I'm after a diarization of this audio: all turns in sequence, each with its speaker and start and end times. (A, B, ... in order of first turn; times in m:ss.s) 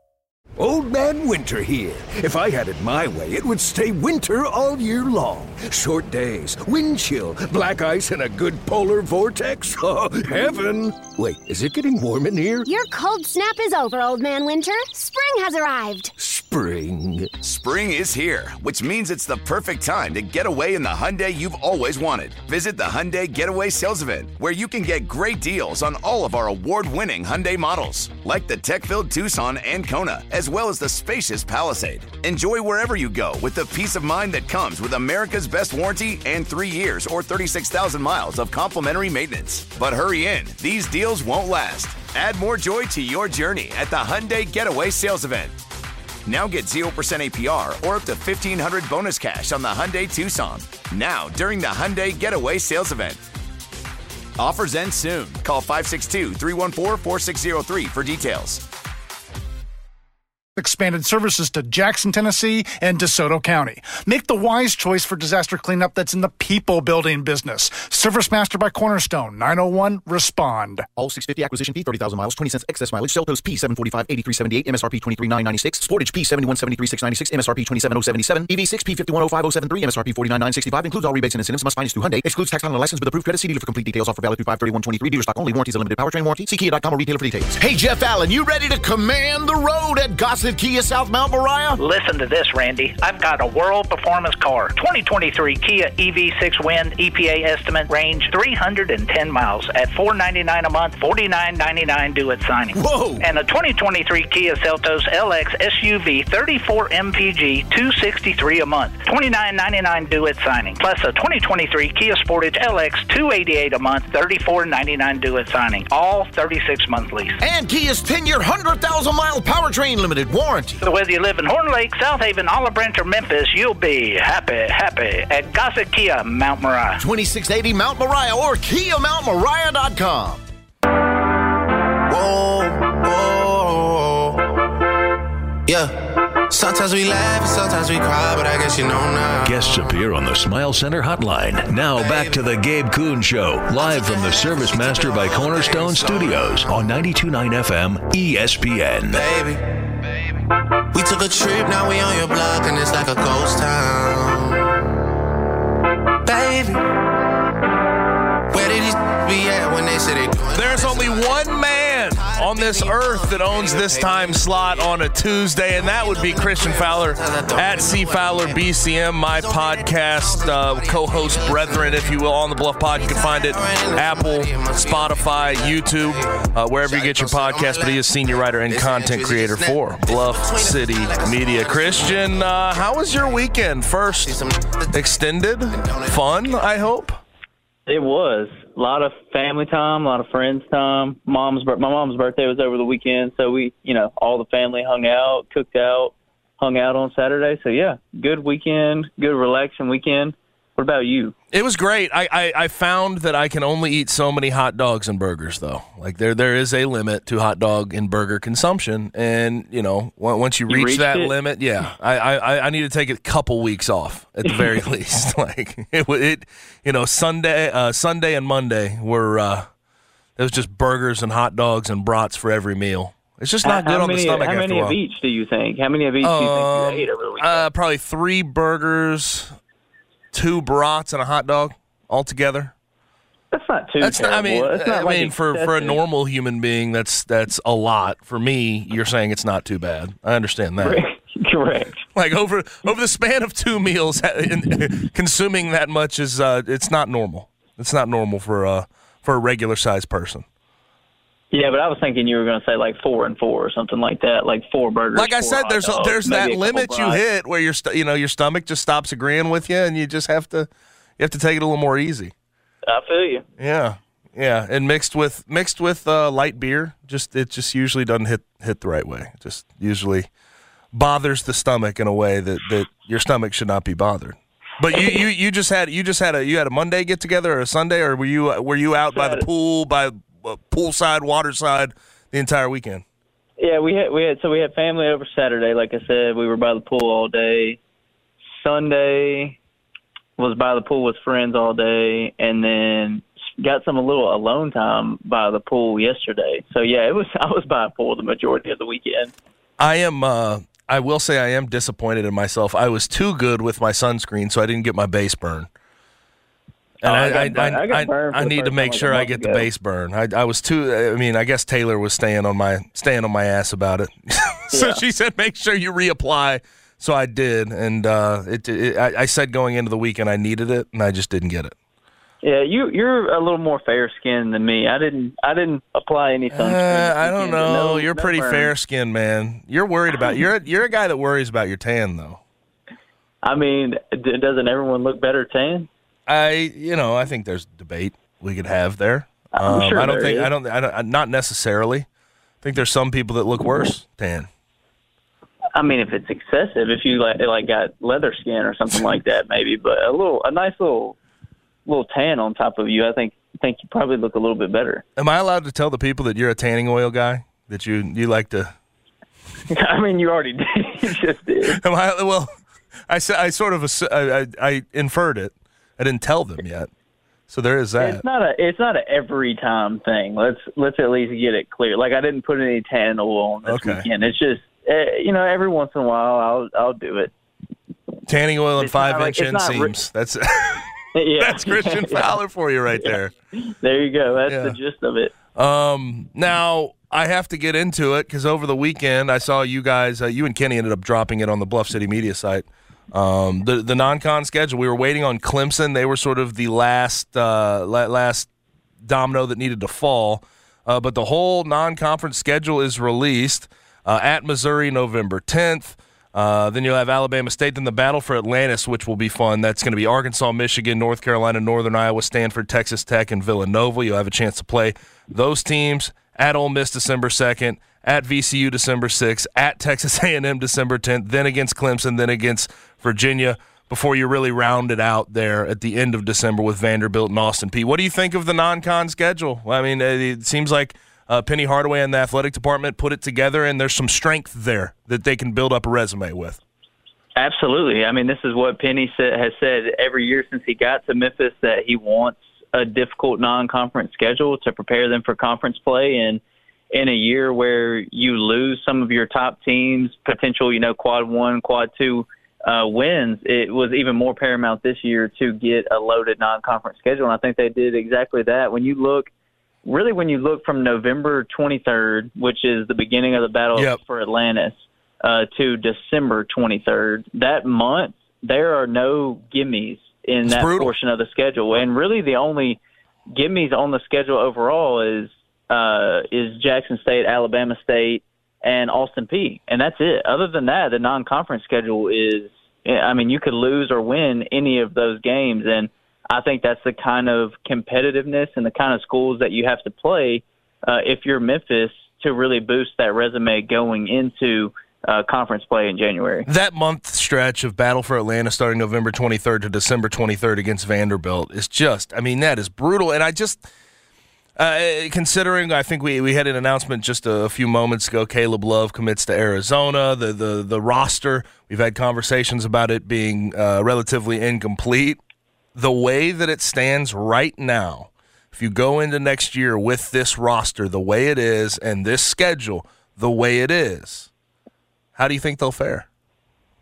0:00.6-0:12.7 A
0:12.6-0:16.1 B
0:16.2-0:17.4 A
0:17.4-0:45.6 C
0:46.3-0:53.2 C
0:54.4-0:58.6 C
1:00.6-1:10.9 D
1:11.0-1:27.6 E
1:27.6-1:31.8 F
1:31.8-1:57.4 G
1:42.8-1:43.2 A
1:57.5-1:58.6 E
1:57.5-2:00.7 F
2:00.8-2:07.0 G
2:07.0-2:08.2 E
2:08.0-2:10.1 F
2:09.8-2:10.4 E
2:12.1-2:14.4 H
2:15.7-2:15.9 H
2:16.5-2:19.6 H
2:19.4-2:29.3 I
2:22.0-2:22.4 H
2:23.8-2:26.6 H
2:29.1-2:29.7 H
2:30.9-2:34.8 H
2:36.2-2:36.8 H
2:38.5-2:44.9 H
2:40.5-3:04.4 J
2:45.8-2:48.6 H
2:49.3-2:52.0 H
2:53.0-3:02.4 H
3:04.2-3:05.0 H
3:04.9-3:07.2 J
3:05.7-3:06.3 H
3:07.9-3:21.4 K
3:21.5-3:39.7 J
3:30.7-3:31.3 K
3:34.5-3:34.7 K
3:40.4-3:45.0 J
3:43.6-3:47.7 K
3:46.2-3:49.5 J
3:50.3-3:52.7 J
3:53.5-3:56.0 K
3:54.0-4:01.0 J
4:00.8-4:02.0 K
4:02.2-4:10.4 J
4:11.5-4:17.2 K
4:15.2-4:22.3 J
4:22.9-4:23.4 K
4:23.6-4:30.3 J
4:30.9-4:43.0 J
4:39.1-4:39.4 K
4:43.6-4:47.8 K
4:48.5-4:49.6 K
4:50.4-4:59.3 K
4:59.8-5:05.7 J
5:07.0-5:09.7 K
5:07.0-5:21.8 J
5:14.7-5:15.0 K
5:22.4-5:28.7 K
5:26.5-5:32.4 J
5:33.4-5:35.9 K
5:36.3-5:42.1 J
5:39.6-5:40.5 K
5:42.6-5:44.5 J
5:45.8-5:51.2 K
5:51.9-5:55.0 K
5:55.2-5:58.7 J
5:59.7-6:01.8 K
6:01.7-6:02.5 J
6:03.1-6:06.9 J
6:07.5-6:08.2 J
6:08.0-6:17.3 K
6:13.7-6:14.0 J
6:18.3-6:23.3 J
6:18.8-6:19.9 K
6:21.2-6:22.3 K
6:23.8-6:25.3 K
6:24.5-6:24.8 J
6:25.6-6:38.5 J
6:39.0-7:16.6 J
7:17.4-7:26.4 K
7:26.9-7:39.3 K
7:39.8-7:52.8 K
7:50.5-7:50.9 J
7:53.3-8:16.5 K
8:16.5-8:23.6 J
8:24.6-8:35.2 J
8:35.8-8:44.3 J
8:45.2-8:46.1 J